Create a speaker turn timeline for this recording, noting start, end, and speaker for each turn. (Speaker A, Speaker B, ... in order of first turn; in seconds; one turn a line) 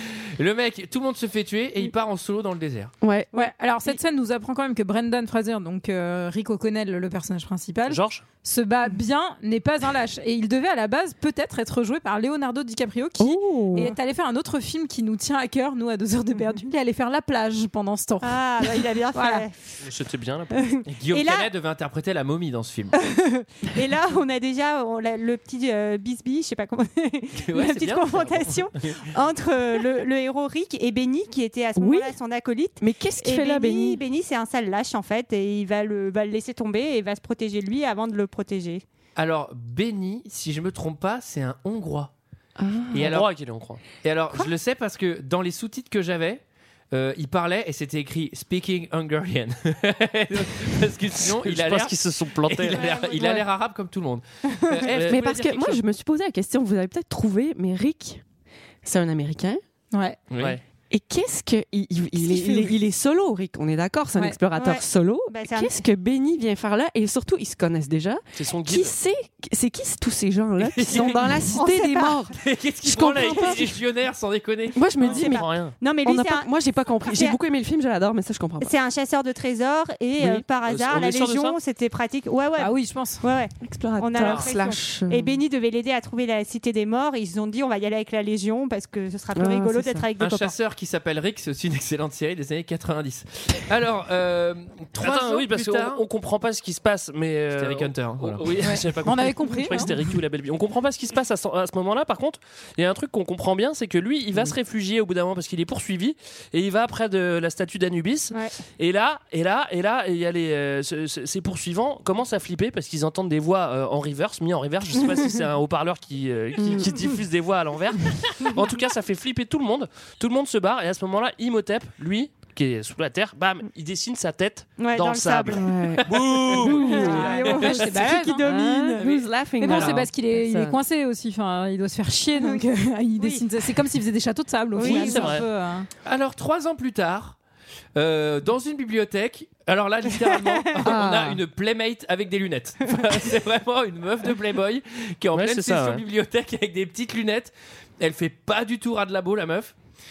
Speaker A: 0.4-2.9
Speaker B: 3.0-3.3
Speaker C: 3.3-3.9
Speaker D: 3.3-19.4
Speaker E: 7.9-8.2
Speaker B: 13.2-13.9
Speaker C: 18.2-19.8
Speaker E: 19.8-20.6
Speaker C: 20.5-21.5
Speaker A: 20.9-22.9
Speaker C: 23.0-38.8
Speaker A: 27.3-29.0
Speaker B: 31.8-32.1
Speaker B: 32.8-34.0
Speaker A: 39.1-42.1
Speaker B: 42.6-43.1
Speaker A: 42.9-43.3
Speaker E: 43.0-43.8
Speaker A: 44.0-55.8
Speaker E: 51.2-52.9
Speaker C: 52.7-53.2
Speaker B: 54.9-58.2
Speaker B: 58.8-59.6
Speaker D: 59.9-60.2
Speaker A: 60.3-60.6
Speaker B: 60.9-73.8
Speaker D: 62.2-62.7
Speaker C: 64.5-65.7
Speaker E: 68.3-68.9
Speaker A: 70.6-71.4
Speaker C: 71.5-72.2
Speaker A: 72.3-75.1
Speaker B: 74.7-78.7
Speaker C: 75.0-76.5
Speaker E: 75.0-75.8
Speaker C: 77.0-77.4
Speaker C: 78.6-90.5
Speaker B: 80.2-80.4
Speaker E: 80.6-81.6
Speaker D: 82.6-83.2
Speaker B: 83.6-85.4
Speaker A: 84.2-84.5
Speaker B: 89.3-90.1
Speaker A: 90.2-96.0
Speaker E: 95.0-127.1
Speaker A: 97.5-98.5
Speaker D: 98.6-99.9
Speaker B: 116.6-116.9
Speaker C: 124.8-125.7
Speaker B: 125.5-127.4
Speaker A: 126.1-127.6
Speaker C: 126.7-129.0
Speaker D: 127.0-128.5
Speaker B: 128.0-130.8
Speaker A: 129.0-129.9
Speaker D: 129.6-135.9
Speaker C: 133.2-133.4
Speaker C: 134.8-135.4
Speaker E: 134.8-135.4
Speaker A: 136.0-137.4
Speaker A: 137.9-149.7
Speaker B: 140.8-141.4
Speaker E: 145.3-146.0